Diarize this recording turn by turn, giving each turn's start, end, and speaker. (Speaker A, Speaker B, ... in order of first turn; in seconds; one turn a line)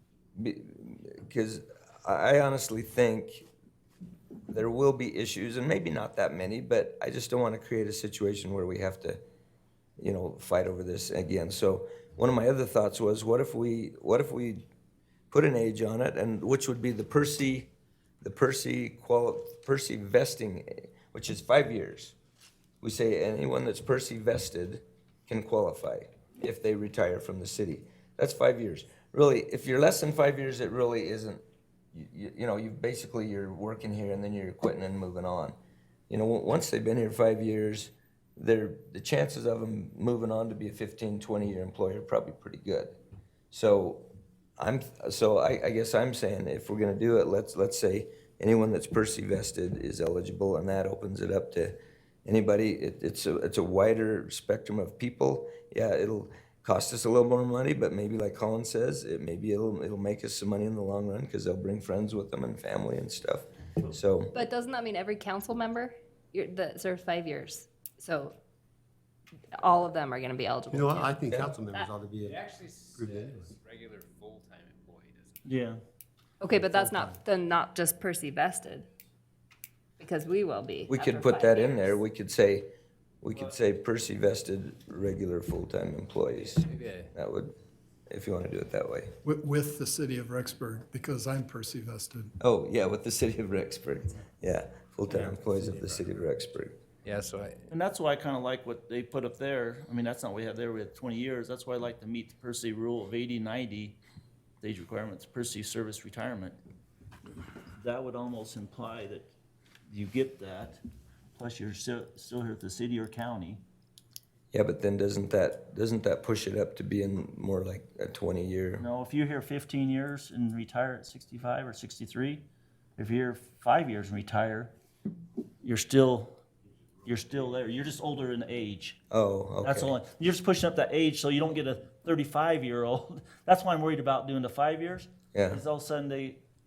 Speaker A: 0.3-3.5
Speaker A: 4.5-9.2
Speaker A: 10.0-14.6
Speaker A: 15.3-17.7
Speaker A: 18.2-22.1
Speaker A: 22.8-31.4
Speaker A: 31.9-35.5
Speaker A: 36.1-43.0
Speaker A: 43.5-44.0
Speaker A: 44.6-64.4
Speaker B: 64.3-68.3
Speaker B: 69.5-71.9
Speaker C: 70.7-73.5
Speaker D: 72.3-75.4
Speaker E: 75.5-75.8
Speaker B: 76.4-78.9
Speaker B: 80.0-82.0
Speaker A: 80.9-82.7
Speaker A: 83.2-87.5
Speaker D: 86.3-87.1
Speaker A: 88.1-89.1
Speaker F: 89.2-92.3
Speaker A: 92.4-96.7
Speaker D: 97.0-97.6
Speaker E: 97.7-104.0
Speaker E: 104.6-106.6
Speaker E: 107.8-109.3
Speaker E: 109.9-110.8
Speaker E: 111.3-113.6
Speaker A: 114.5-118.8
Speaker E: 118.8-122.5
Speaker E: 123.0-124.7
Speaker E: 125.6-126.4
Speaker E: 127.0-129.0
Speaker A: 129.1-130.0
Speaker E: 129.6-136.4
Speaker A: 135.3-135.6